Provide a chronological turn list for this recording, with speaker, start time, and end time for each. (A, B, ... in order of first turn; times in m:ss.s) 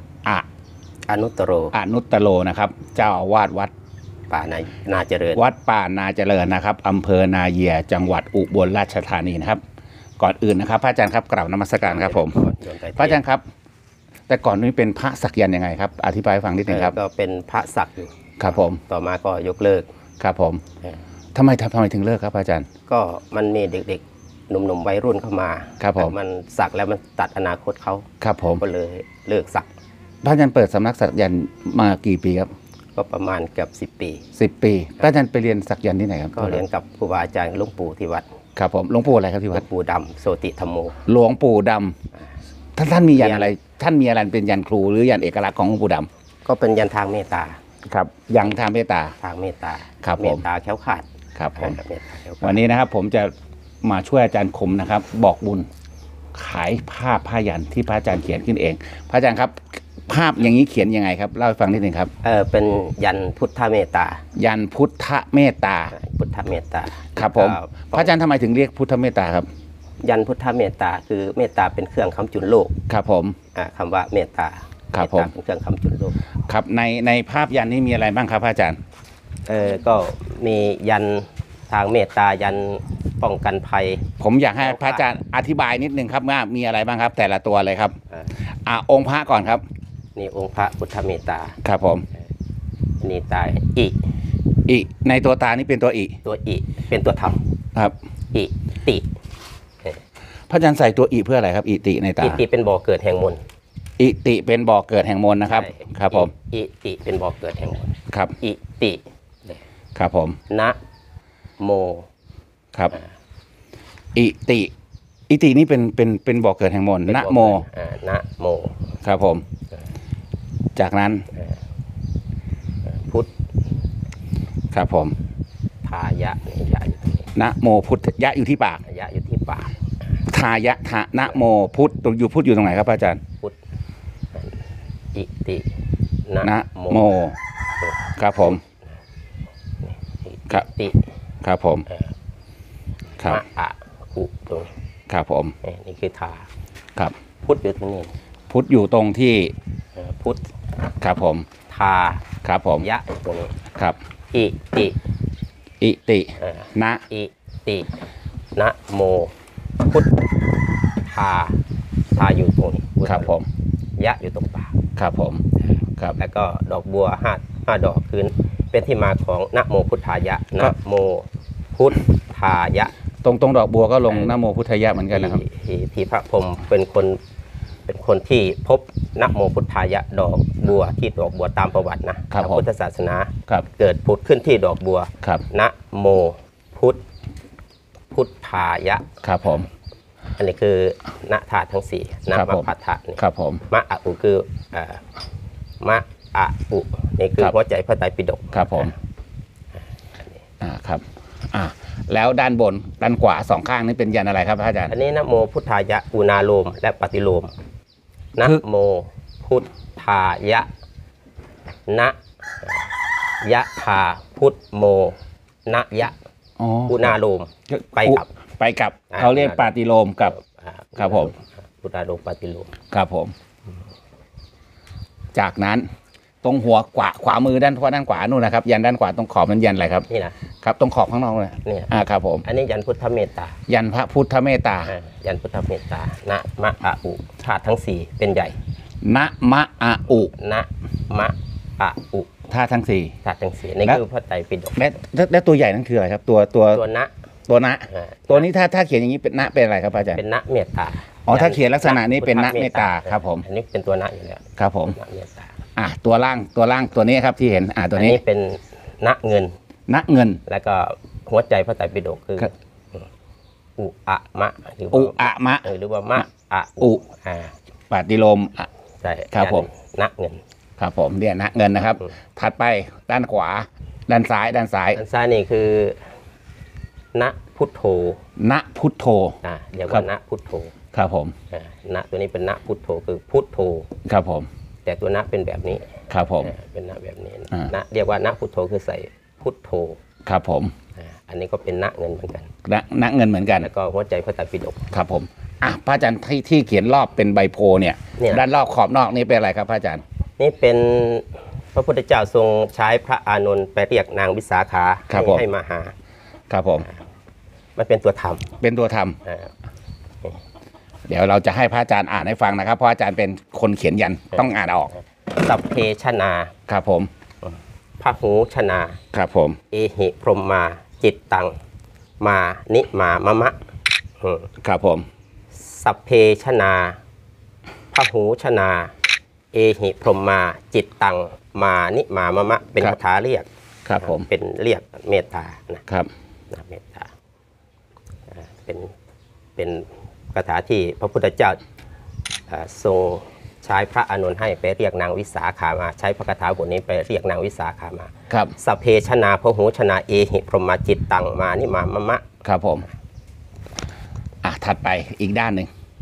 0:01.1-0:01.7 A
0:01.7-0:03.7 B
0:04.3-0:05.4 A
0:05.4-0:09.6 B
0:10.2-0:12.4 B
0:11.8-0:13.2 A
0:13.0-0:13.4 B
0:14.3-0:17.0 B
0:16.7-0:19.9 A
0:18.4-0:18.8 B
0:20.2-0:20.6 B
0:21.4-0:22.7 B
0:22.9-0:28.1 A
0:25.8-0:26.1 B
0:28.2-0:28.6 B
0:28.6-0:29.7 A
0:30.2-0:32.5 B
0:33.0-0:34.2 A
0:34.4-0:36.6 B
0:36.4-0:38.3 A
0:38.6-0:39.6 B
0:39.5-0:41.0 A
0:41.1-0:42.0 B
0:42.8-0:46.1 B
0:43.1-0:43.5 A
0:46.5-0:47.6 A
0:47.9-0:49.2 B
0:49.2-0:52.6 A
0:50.0-0:50.4 B
0:51.4-0:51.8 B
0:52.4-0:53.3 B
0:53.8-0:55.7 B
0:56.3-1:02.1 B
1:02.2-1:04.2 A
1:04.4-1:05.9 B
1:05.9-1:08.1 A
1:07.2-1:09.5 B
1:10.0-1:12.8 A
1:12.9-1:13.4 B
1:13.5-1:16.2 A
1:14.9-1:15.3 B
1:16.5-1:18.8 B
1:19.5-1:24.1 A
1:24.2-1:29.6 B
1:24.6-1:25.0 A
1:30.2-1:31.6 A
1:31.6-1:32.1 B
1:33.0-1:34.0 A
1:34.7-1:36.2 B
1:36.2-1:37.4 A
1:38.3-1:39.1 A
1:40.5-1:42.4 B
1:42.2-1:43.4 A
1:44.0-1:46.3 B
1:45.5-1:49.6 A
1:50.0-1:50.4 B
1:50.5-1:50.8 A
1:51.6-1:52.1 A
1:54.2-1:54.7 B
1:55.3-1:57.6 B
1:57.1-1:58.9 A
1:59.0-1:59.4 B
2:00.8-2:01.3 B
2:02.8-2:03.3 A
2:04.7-2:05.2 B
2:05.8-2:07.3 A
2:07.4-2:08.8 B
2:08.8-2:09.8 A
2:10.3-2:13.2 B
2:15.1-2:15.7 A
2:16.3-2:17.1 A
2:16.4-2:17.4 B
2:17.8-2:18.6 A
2:18.2-2:18.6 B
2:19.8-2:21.0 A
2:21.4-2:21.9 B
2:21.9-2:22.1 A
2:23.2-2:24.7 A
2:25.1-2:25.6 B
2:25.6-2:26.5 A
2:27.4-2:28.2 A
2:28.5-2:29.5 B
2:30.0-2:30.5 A
2:31.0-2:31.5 B
2:31.7-2:32.2 A
2:32.4-2:32.9 B
2:32.8-2:33.6 A
2:34.3-2:35.0 A
2:35.8-2:37.0 B
2:36.4-2:37.9 A
2:38.6-2:40.2 A
2:41.0-2:41.6 A
2:42.2-2:43.4 A
2:43.1-2:43.5 B
2:44.0-2:44.8 A
2:45.0-2:45.5 B
2:46.2-2:52.9 A
2:53.2-2:55.4 B
2:54.1-2:54.4 A
2:55.0-2:57.2 A
2:57.9-3:07.0 A
3:02.3-3:02.6 B
3:08.1-3:09.1 A
3:09.2-3:09.7 B
3:10.4-3:15.0 A
3:12.3-3:13.6 B
3:15.8-3:19.0 A
3:18.5-3:18.9 B
3:20.2-3:20.4 A
3:20.6-3:24.9 B
3:24.9-3:27.5 A
3:28.4-3:30.7 A
3:31.9-3:36.2 A
3:36.6-3:37.1 B
3:36.9-3:38.3 A
3:37.7-3:40.4 B
3:39.1-3:39.7 A
3:40.2-3:42.7 A
3:41.0-3:41.3 B
3:42.9-3:43.3 B
3:45.3-3:45.9 B
3:46.4-3:50.1 B
3:50.1-3:50.4 A
3:50.6-3:52.4 B
3:51.6-3:51.9 A
3:52.4-3:53.6 A
3:53.7-3:54.9 B
3:54.9-3:58.6 A
3:59.0-4:00.3 B
4:00.2-4:02.3 A
4:02.5-4:03.2 B
4:03.2-4:04.9 A
4:04.8-4:06.8 B
4:06.7-4:07.1 A
4:07.5-4:10.2 B
4:07.9-4:08.4 A
4:10.1-4:15.5 A
4:11.3-4:13.4 B
4:14.6-4:15.0 B
4:15.8-4:18.2 B
4:18.0-4:19.6 A
4:19.9-4:20.4 B
4:20.5-4:23.1 A
4:23.8-4:27.6 A
4:24.9-4:26.2 B
4:27.9-4:28.7 B
4:29.0-4:30.4 A
4:29.3-4:29.7 B
4:30.8-4:35.0 B
4:34.9-4:36.1 A
4:37.1-4:38.2 A
4:38.4-4:39.4 B
4:39.4-4:40.7 A
4:40.9-4:41.4 B
4:41.5-4:43.9 A
4:44.1-4:44.5 B
4:44.8-4:50.0 A
4:46.1-4:46.5 B
4:50.2-4:50.7 B
4:51.0-4:52.5 A
4:52.6-4:53.7 B
4:53.6-4:54.9 A
4:54.9-5:00.0 B
4:58.2-4:58.4 A
5:00.4-5:05.9 A
5:05.1-5:05.4 B
5:06.5-5:06.9 B
5:07.8-5:08.5 A
5:08.6-5:09.2 B
5:09.2-5:09.5 A
5:11.1-5:14.9 B
5:14.4-5:16.5 A
5:16.7-5:17.1 B
5:17.4-5:19.0 A
5:19.1-5:19.6 B
5:19.7-5:21.6 A
5:22.2-5:23.6 A
5:24.2-5:24.5 A
5:24.6-5:25.1 B
5:25.6-5:27.0 A
5:27.9-5:28.9 A
5:29.5-5:35.8 A
5:33.8-5:34.3 B
5:36.5-5:37.1 A
5:38.3-5:38.9 A
5:39.6-5:41.6 A
5:42.5-5:52.2 A
5:52.4-5:52.9 B
5:54.4-5:55.7 B